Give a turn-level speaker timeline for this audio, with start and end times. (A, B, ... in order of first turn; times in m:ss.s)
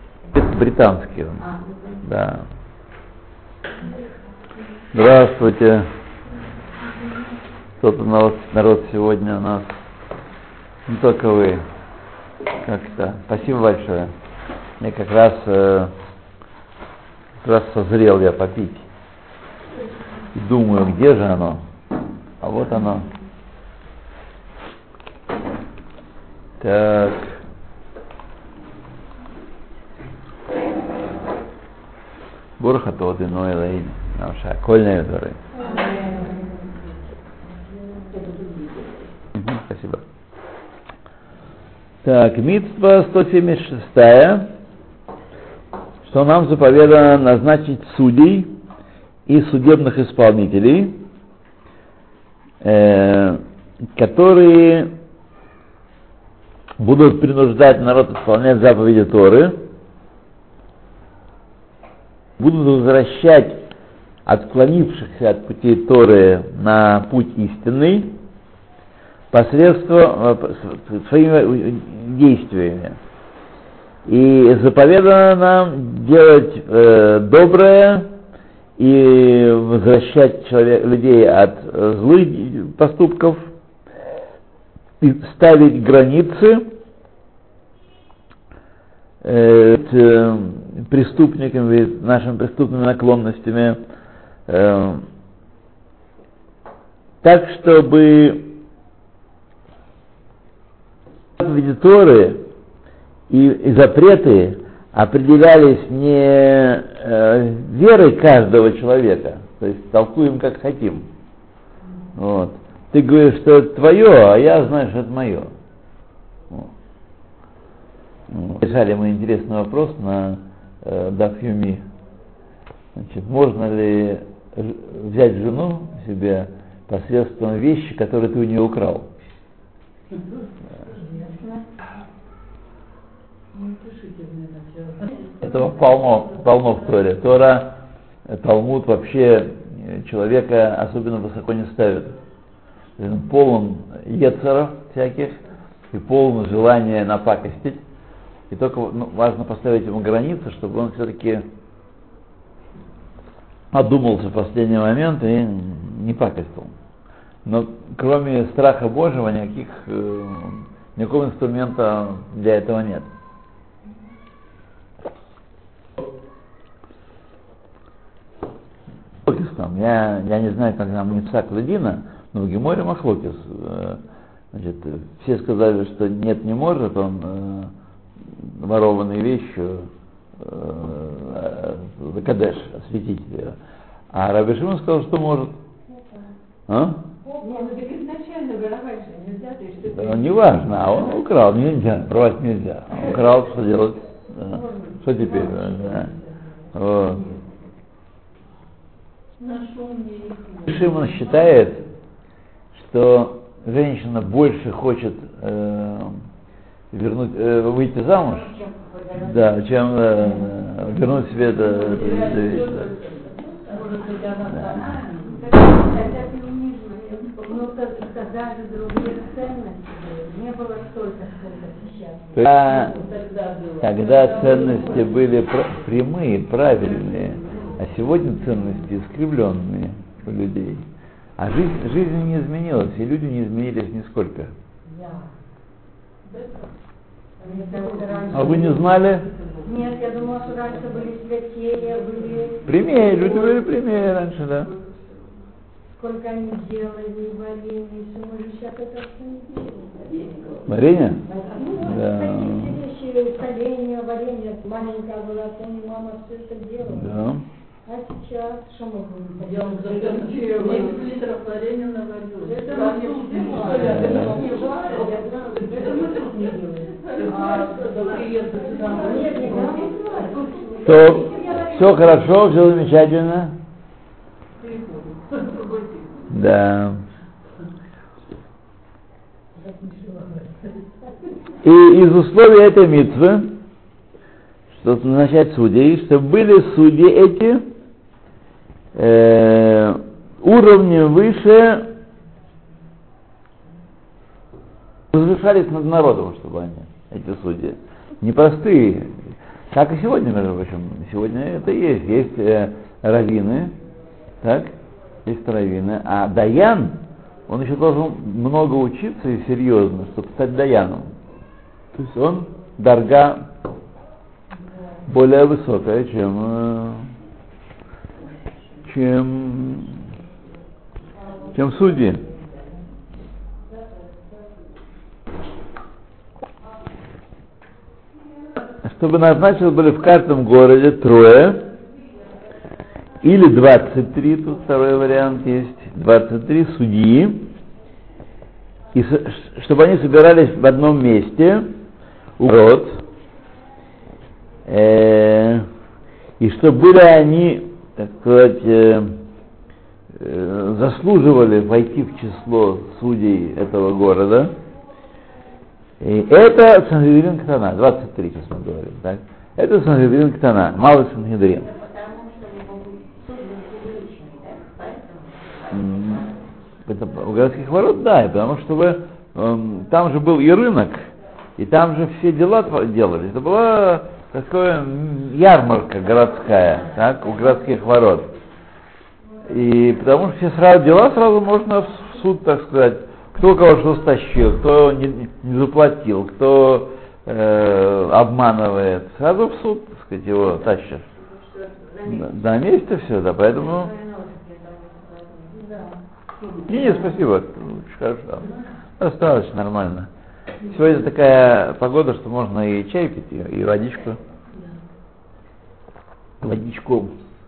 0:00.3-0:01.5 A
0:02.0-0:02.4 A
0:04.9-0:05.9 A
0:07.8-0:09.7 A
0:10.9-0:11.6 A
0:12.6-0:14.1 A
0:14.8-0:15.9 A
0:17.4-0:18.8 A
0:20.3-0:21.6 A
0:22.4-0:23.1 A
0:26.6-0:27.4 A
0:32.6-0:35.4 A
0:35.6-0:36.4 B
0:35.6-0:36.4 C
0:38.1-0:39.0 C
0:39.4-0:40.0 A
0:42.0-0:44.5 A
0:46.0-0:48.6 A
0:49.3-0:51.0 A
0:52.6-0:53.4 A
0:54.0-0:54.9 A
0:56.8-0:59.6 A
1:02.4-1:03.6 A
1:04.3-1:08.2 A
1:09.3-1:13.0 A
1:14.1-1:18.1 A
1:18.8-1:23.5 A
1:25.0-1:26.7 A
1:29.2-1:33.8 A
1:34.5-1:35.1 A
1:37.2-1:38.6 A
1:41.4-1:42.4 A
1:43.3-1:51.1 A
1:52.2-1:55.5 A
1:58.3-2:01.8 A
2:03.0-2:09.1 A
2:11.2-2:11.6 B
2:13.5-2:15.2 C
2:15.4-2:22.2 A
2:23.0-2:25.4 A
2:25.9-2:27.8 A
2:28.5-2:31.4 A
2:33.7-2:36.7 A
2:37.4-2:43.1 A
2:49.2-2:54.0 A
2:54.5-2:57.7 A
2:58.4-2:59.9 A
3:00.4-3:03.6 A
3:04.1-3:05.6 A
3:06.7-3:07.0 A
3:07.4-3:07.7 B
3:07.4-3:10.7 C
3:09.9-3:16.1 A
3:14.4-3:16.3 B
3:16.7-3:17.3 A
3:19.4-3:21.4 C
3:20.7-3:21.8 A
3:22.7-3:26.2 A
3:26.9-3:28.5 A
3:28.5-3:29.6 B
3:29.1-3:32.9 A
3:31.7-3:35.6 C
3:35.2-3:42.3 B
3:37.1-3:37.6 C
3:42.3-3:43.0 A
3:42.6-3:45.3 C
3:43.8-3:50.8 A
3:51.4-3:54.5 A
3:54.9-3:55.3 B
3:57.4-3:58.9 B
3:57.4-4:00.9 C
3:58.3-3:59.3 A
3:59.6-4:03.4 B
4:02.1-4:03.6 C
4:02.7-4:04.7 A
4:04.7-4:05.0 C
4:06.0-4:10.1 B
4:10.1-4:10.6 C
4:10.7-4:11.2 A
4:11.2-4:17.1 B
4:11.8-4:12.8 A
4:16.9-4:17.4 A
4:17.8-4:21.0 B
4:19.4-4:26.3 C
4:22.5-4:28.0 B
4:23.9-4:24.4 A
4:27.0-4:30.0 C
4:28.5-4:32.1 B
4:30.8-4:33.6 A
4:34.6-4:36.3 C
4:36.3-4:37.0 A
4:39.6-4:40.6 B
4:41.6-4:43.6 A
4:44.7-4:47.7 A
4:49.0-4:51.9 A
4:55.1-4:59.1 A
4:59.7-5:03.7 A
5:04.4-5:04.7 A
5:05.2-5:11.1 A
5:12.0-5:13.5 A
5:15.1-5:17.1 A
5:18.8-5:20.0 A
5:21.5-5:22.2 A
5:28.8-5:31.7 A
5:33.2-5:37.5 A
5:38.9-5:41.7 A
5:42.4-5:43.0 A
5:44.7-5:45.7 A
5:46.4-5:49.2 A
5:50.1-5:54.5 A
5:56.0-6:01.7 A
6:05.7-6:06.3 A
6:06.9-6:11.0 A
6:11.6-6:18.3 A
6:19.4-6:31.0 A
6:32.1-6:33.9 A
6:35.7-6:37.0 C
6:36.7-6:40.1 A
6:40.6-6:44.2 A
6:46.4-6:47.1 A